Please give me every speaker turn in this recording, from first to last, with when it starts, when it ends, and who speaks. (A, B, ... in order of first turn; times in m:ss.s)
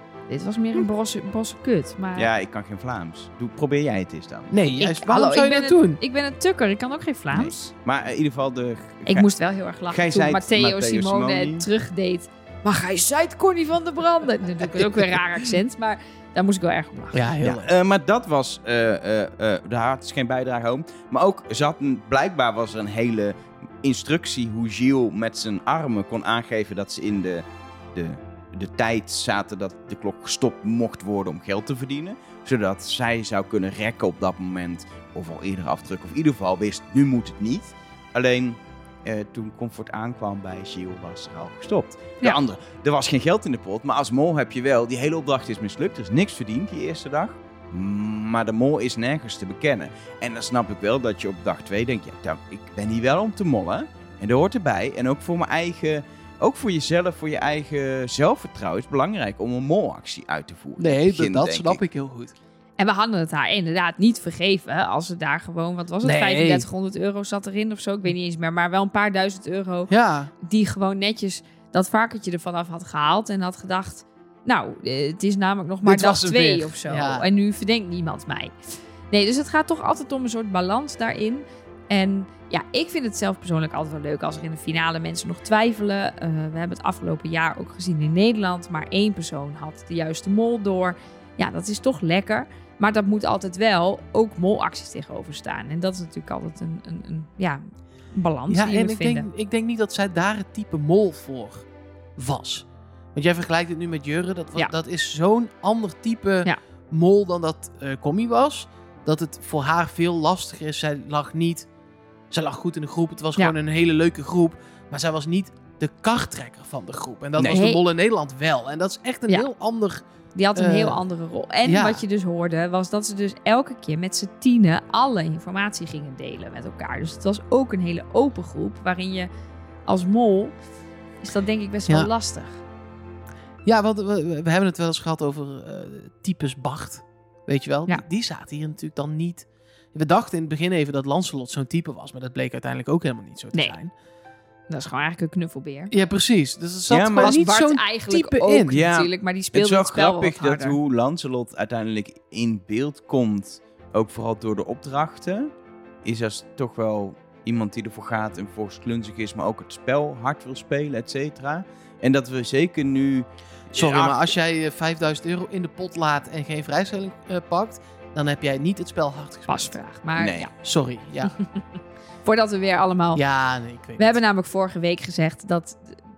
0:00.3-0:02.3 A
0:02.1-0:04.5 B
0:04.5-0:06.0 C
0:04.8-0:07.6 A
0:07.3-0:09.3 B
0:09.1-0:17.3 A
0:09.9-0:11.6 B
0:14.6-0:15.5 C
0:17.1-0:17.7 C
0:17.4-1:01.8 B
1:00.8-1:02.3 C
1:02.8-1:18.5 A
1:06.0-1:06.6 C
1:09.9-1:10.3 C
1:15.8-1:17.2 C
1:19.1-1:39.3 A
1:38.5-1:41.6 C
1:42.2-1:51.7 C
1:52.3-2:01.0 C
1:57.4-1:57.8 A
2:00.3-2:09.3 A
2:01.6-2:02.0 C
2:09.9-2:10.5 A
2:11.2-2:12.6 A
2:13.6-2:23.9 C
2:24.7-2:25.9 A
2:25.9-2:28.8 C
2:26.9-2:27.4 B
2:27.2-2:30.8 A
2:28.7-2:35.5 B
2:36.0-2:44.3 B
2:43.7-2:49.8 C
2:49.5-2:50.5 A
2:50.2-2:50.5 B
2:50.6-2:51.4 C
2:52.2-2:53.2 A
2:53.1-2:54.2 C
2:54.0-2:56.0 A